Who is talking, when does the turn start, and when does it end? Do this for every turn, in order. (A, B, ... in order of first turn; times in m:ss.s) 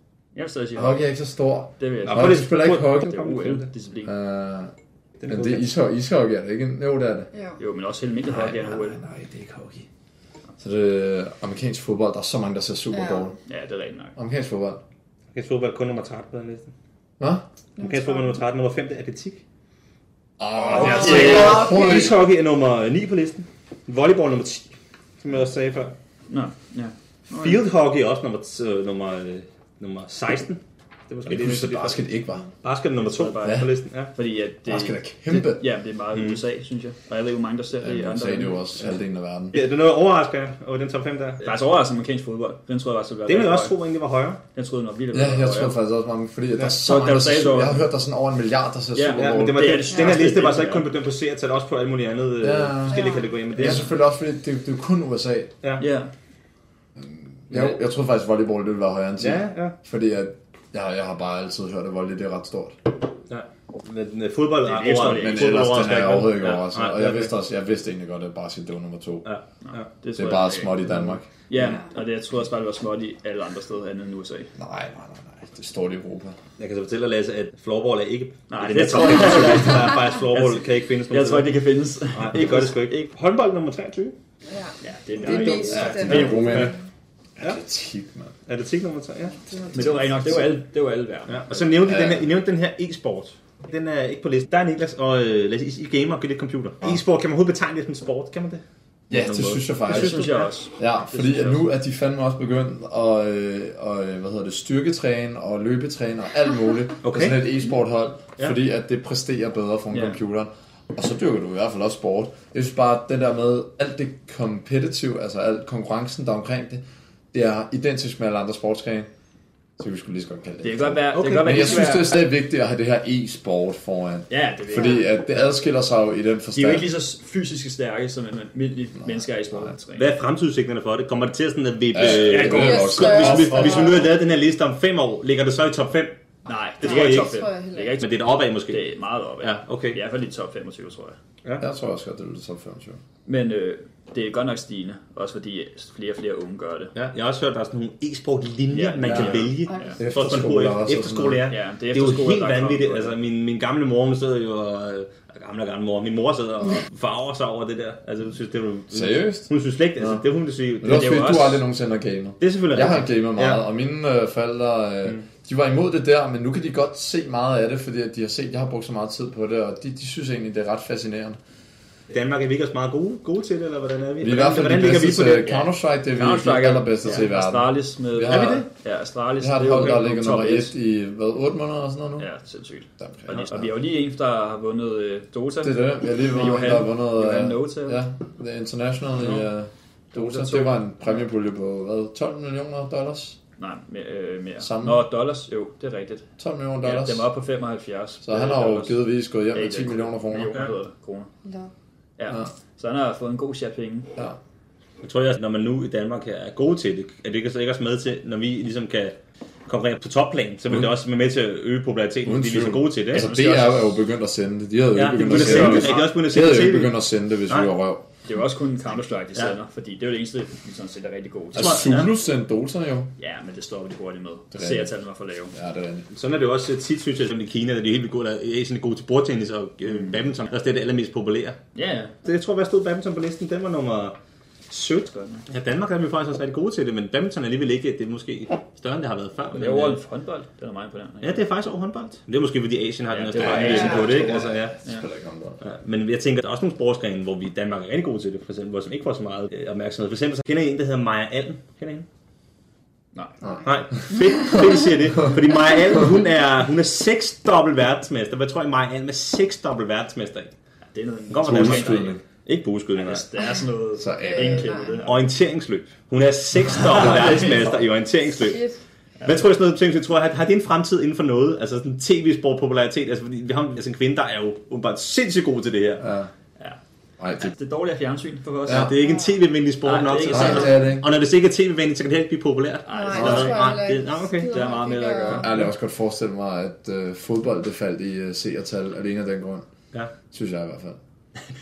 0:00.3-0:01.0 A
0:00.7-0:03.1 B
0:01.8-0:04.1 A
0:02.0-0:03.7 C
0:04.0-0:04.7 B
0:05.2-0:05.7 C
0:05.3-0:07.3 B
0:07.3-0:07.6 D
0:07.6-0:09.0 A
0:08.3-0:09.8 B
0:10.6-0:13.4 B
0:12.9-0:13.3 D
0:13.5-0:14.2 A
0:14.2-0:14.8 B
0:15.3-0:16.7 C
0:17.2-0:17.4 B
0:17.8-0:18.3 D
0:17.8-0:19.4 C
0:20.4-0:22.2 B
0:20.6-0:24.7 C
0:20.8-0:22.1 D
0:25.2-0:25.9 C
0:26.3-0:27.6 A
0:27.3-0:32.1 C
0:31.3-0:32.5 B
0:32.6-0:34.1 C
0:33.0-0:38.6 A
0:33.4-0:33.7 B
0:34.6-0:35.6 B
0:36.1-0:36.4 C
0:37.8-0:39.6 B
0:39.5-0:41.6 C
0:41.4-0:43.8 A
0:43.3-0:44.4 C
0:44.5-0:45.8 A
0:45.1-0:49.8 B
0:46.6-0:47.8 A
0:49.0-0:50.8 A
0:49.1-0:53.9 C
0:52.4-0:55.5 B
0:52.9-0:53.3 D
0:55.8-0:56.1 A
0:57.0-1:02.9 B
0:59.2-0:59.7 C
1:03.3-1:07.3 C
1:04.6-1:06.2 A
1:05.1-1:09.2 B
1:09.2-1:09.9 C
1:09.6-1:14.5 A
1:10.2-1:11.3 B
1:14.6-1:16.3 B
1:16.6-1:21.5 C
1:18.5-1:23.1 A
1:22.1-1:24.1 C
1:24.5-1:26.8 D
1:24.8-1:26.7 A
1:25.2-1:26.8 B
1:26.0-1:26.7 C
1:27.4-1:28.3 B
1:28.5-1:29.4 C
1:29.5-1:30.3 D
1:29.7-1:30.5 B
1:29.7-1:31.4 A
1:31.3-1:40.1 C
1:31.8-1:32.2 B
1:39.1-1:59.1 B
1:39.8-1:41.7 A
1:47.0-1:47.5 C
1:49.9-1:50.2 A
1:59.8-2:06.9 B
2:00.6-2:02.2 A
2:01.1-2:01.9 C
2:04.3-2:05.1 A
2:06.5-2:10.1 A
2:10.0-2:16.2 C
2:11.9-2:14.0 B
2:12.0-2:12.9 A
2:12.4-2:14.1 D
2:16.4-2:21.2 A
2:16.8-2:17.4 C
2:16.8-2:18.0 D
2:18.0-2:18.8 C
2:19.4-2:20.0 C
2:21.6-2:23.0 B
2:23.2-2:26.9 A
2:26.9-2:41.1 C
2:28.7-2:30.0 A
2:29.0-2:29.4 B
2:29.6-2:30.1 D
2:30.0-2:31.5 B
2:31.5-2:33.1 A
2:38.9-2:39.5 B
2:40.8-2:51.4 B
2:40.8-2:41.6 A
2:42.4-2:43.6 C
2:52.1-2:55.7 C
2:54.2-2:58.7 B
2:56.1-3:00.7 A
2:58.2-2:58.7 C
2:59.4-3:02.2 B
3:02.2-3:08.0 A
3:03.0-3:03.6 B
3:05.6-3:13.4 B
3:10.1-3:10.9 A
3:13.6-3:16.3 A
3:14.6-3:15.0 B
3:16.4-3:17.2 B
3:16.8-3:21.3 A
3:18.2-3:20.6 B
3:21.4-3:21.7 D
3:22.2-3:24.1 A
3:25.0-3:33.3 C
3:32.2-3:38.0 B
3:33.1-3:33.9 A
3:34.9-3:37.7 C
3:35.2-3:36.1 A
3:38.2-3:41.9 A
3:41.5-3:43.1 B
3:41.5-3:42.1 C
3:43.2-3:45.5 A
3:44.5-3:44.9 B
3:45.5-3:46.1 B
3:46.1-3:51.6 C
3:51.7-3:52.1 A
3:52.2-3:54.2 C
3:54.7-4:00.0 C
3:55.1-3:55.4 A
3:59.5-4:01.5 A
4:01.2-4:04.7 C
4:03.1-4:04.3 A
4:03.4-4:05.6 B
4:05.6-4:12.0 C
4:13.1-4:13.4 A
4:13.6-4:20.5 C
4:20.9-4:22.1 A
4:21.3-4:23.3 C
4:21.4-4:22.2 B
4:23.0-4:25.3 A
4:24.0-4:24.7 B
4:24.2-4:25.0 D
4:25.0-4:28.6 C
4:26.8-4:27.6 A
4:28.4-4:28.8 D
4:29.2-4:36.0 C
4:36.0-4:36.3 B
4:37.2-4:37.5 B
4:37.4-4:39.0 A
4:38.7-4:38.9 B
4:38.7-4:44.7 C
4:39.0-4:39.3 D
4:39.8-4:40.9 A
4:40.3-4:41.1 B
4:42.9-4:43.6 A
4:42.9-4:45.6 D
4:43.1-4:43.6 B
4:44.5-4:45.6 A
4:45.3-4:49.6 B
4:50.3-4:51.0 B